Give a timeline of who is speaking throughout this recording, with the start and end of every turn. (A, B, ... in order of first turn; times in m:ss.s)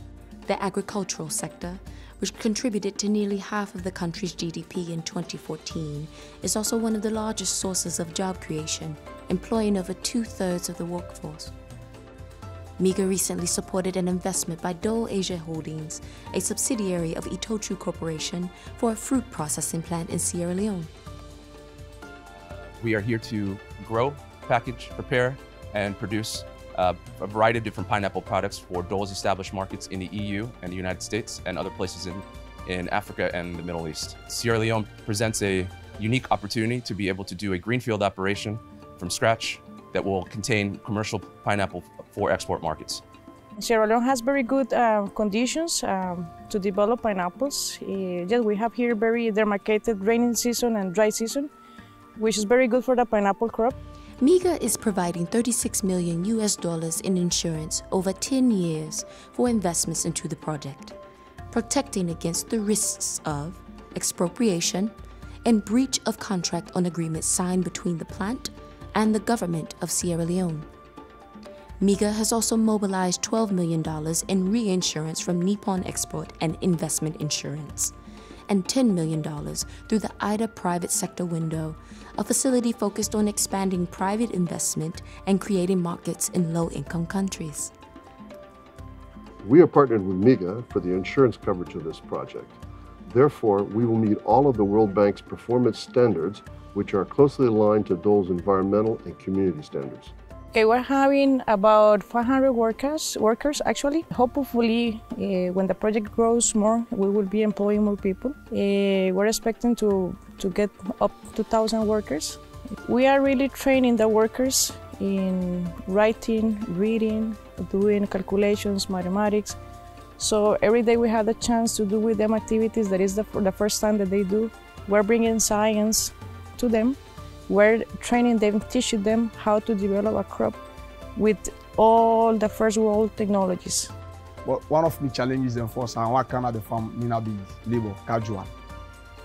0:00.5-0:11.5 A
0:12.8-0:20.9 A
0:22.4-0:43.0 B
0:43.6-0:51.5 C
0:52.2-0:53.7 C
0:54.2-1:00.9 A
1:01.5-1:04.9 A
1:05.4-1:10.7 A
1:11.8-1:17.9 A
1:18.5-1:27.7 A
1:29.4-1:40.1 D
1:40.5-1:59.6 C
2:00.2-2:10.6 C
2:11.2-2:13.9 C
2:14.4-2:18.5 E